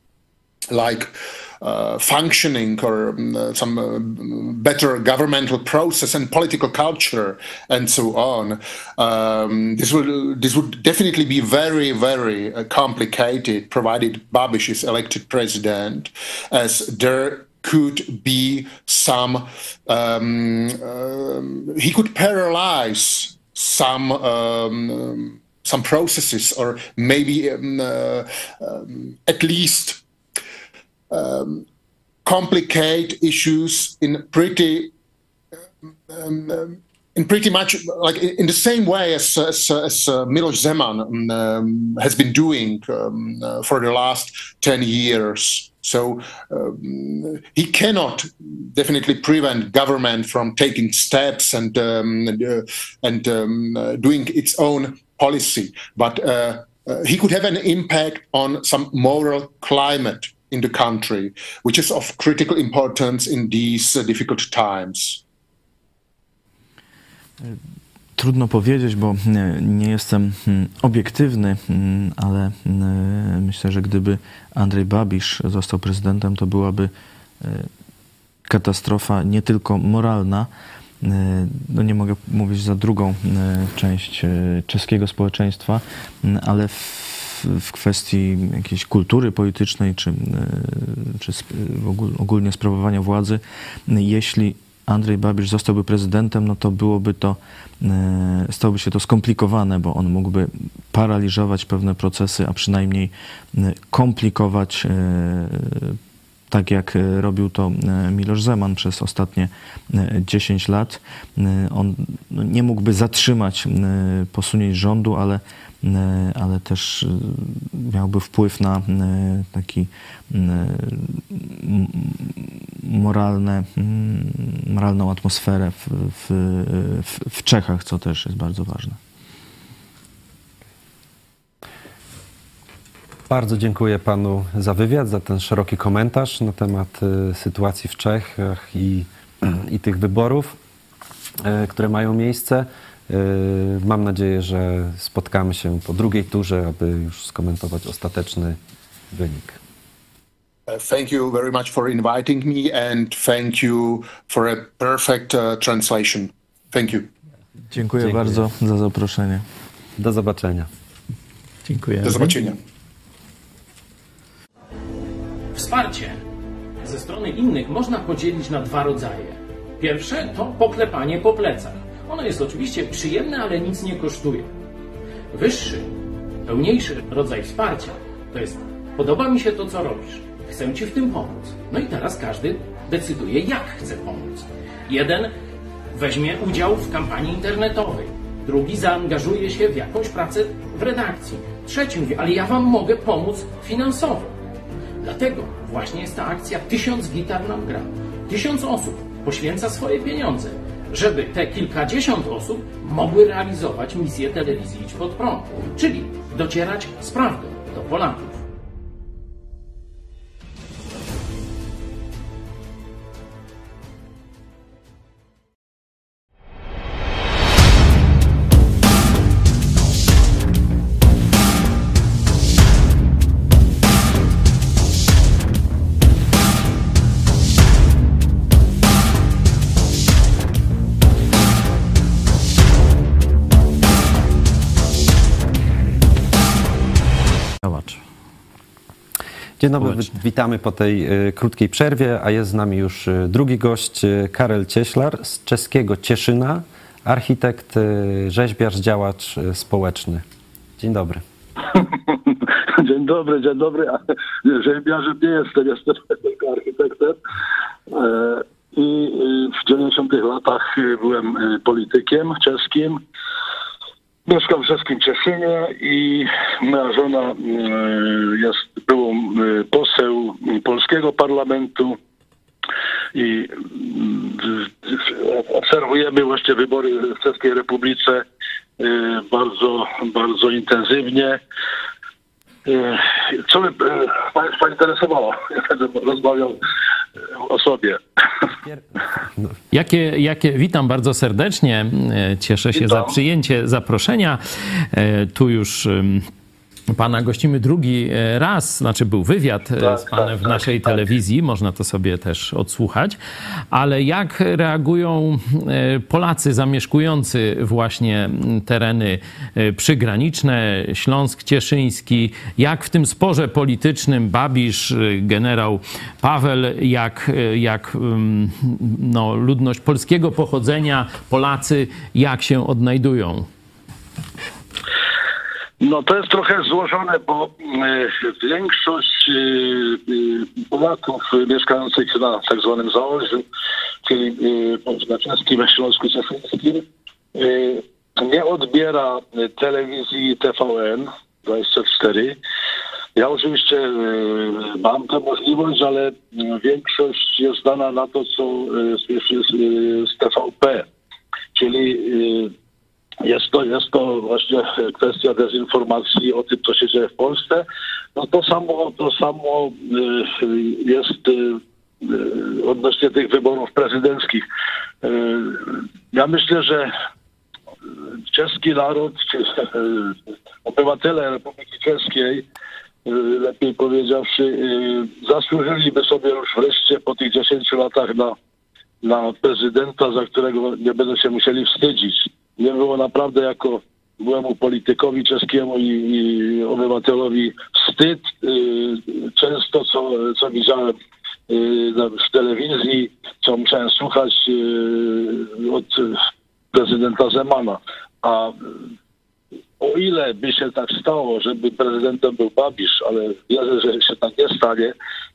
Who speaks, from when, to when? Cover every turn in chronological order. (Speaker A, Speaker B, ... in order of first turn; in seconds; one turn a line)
Speaker A: 0.7-30.0
Speaker A: 31.1-31.6
Speaker A: 32.2-34.9
Speaker A: 35.8-65.2
Speaker B: 68.2-77.7
Speaker B: 78.5-80.5
Speaker B: 81.0-106.0
Speaker B: 106.5-129.0
Speaker C: 133.3-140.6
Speaker C: 141.4-148.6
Speaker C: 149.1-149.6
Speaker A: 150.7-157.1
Speaker B: 157.7-159.4
Speaker D: 158.0-158.4
Speaker C: 160.0-160.7
Speaker D: 161.6-162.3
Speaker A: 162.0-162.6
Speaker D: 165.5-166.2
Speaker D: 166.8-174.5
Speaker D: 175.3-175.9
Speaker D: 176.4-185.3
Speaker D: 185.9-194.3
Speaker D: 195.0-208.4
Speaker D: 237.6-238.0
Speaker C: 239.6-250.2
Speaker D: 239.8-240.2
Speaker C: 250.8-251.2
Speaker E: 251.7-257.2
Speaker E: 257.9-263.0
Speaker E: 264.2-272.0
Speaker E: 273.1-278.2
Speaker E: 278.8-281.4
Speaker E: 282.6-286.6
Speaker E: 287.3-288.0
Speaker C: 288.6-289.5
Speaker D: 289.7-296.3
Speaker D: 296.9-303.2
Speaker E: 299.8-300.6
Speaker D: 303.7-323.5
Speaker E: 325.8-333.4
Speaker E: 334.0-342.4
Speaker E: 343.1-350.9
Speaker E: 351.5-352.5
Speaker E: 353.2-364.4
Speaker E: 365.0-366.9
Speaker E: 368.3-372.4
Speaker E: 373.0-378.4
Speaker E: 379.0-390.9
Speaker E: 391.5-396.2
Speaker E: 396.7-398.7
Speaker E: 399.8-404.9